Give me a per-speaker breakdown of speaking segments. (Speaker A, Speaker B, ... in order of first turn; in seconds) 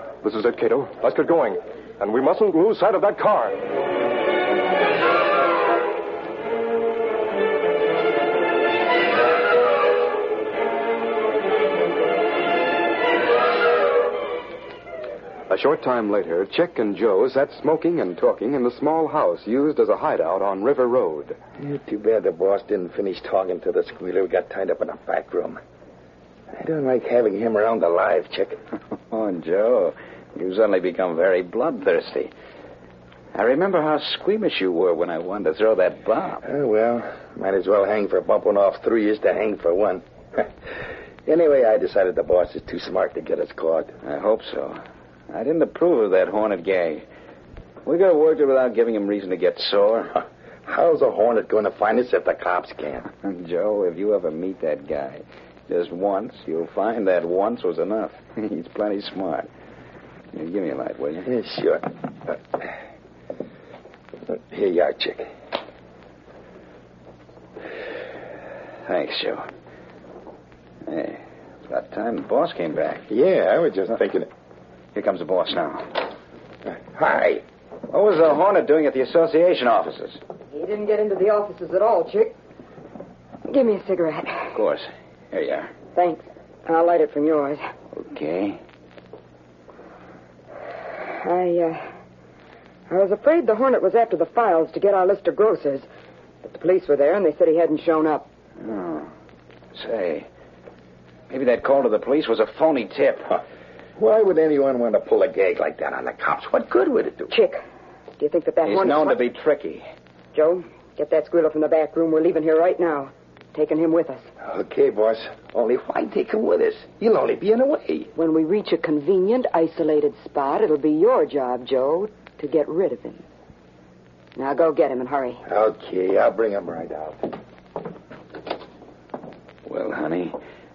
Speaker A: 0.2-3.5
Speaker B: 15.5-21.4
Speaker C: 21.6-25.6, 26.5-28.6, 36.4-40.5, 41.2-43.9, 50.6-53.1, 61.2-62.6, 64.3-65.3, 73.1-74.3, 76.7-77.4, 104.0-107.3, 114.4-118.1, 125.4-127.4
Speaker D: 29.1-32.3, 33.3-36.4, 44.0-47.0, 47.8-50.1, 53.1-59.5, 60.3-61.3, 68.8-69.5, 70.8-73.0, 74.9-76.0, 77.9-80.2, 84.5-85.7, 88.0-88.6, 98.6-99.1, 99.7-100.3, 101.3-103.4, 108.6-109.8, 129.7-130.4
Speaker E: 80.5-82.3, 83.5-84.5, 85.9-87.6, 91.0-91.8, 92.9-95.9, 96.5-98.3, 107.3-107.6, 108.2-109.2, 110.3-114.3, 118.2-123.2, 124.3-125.4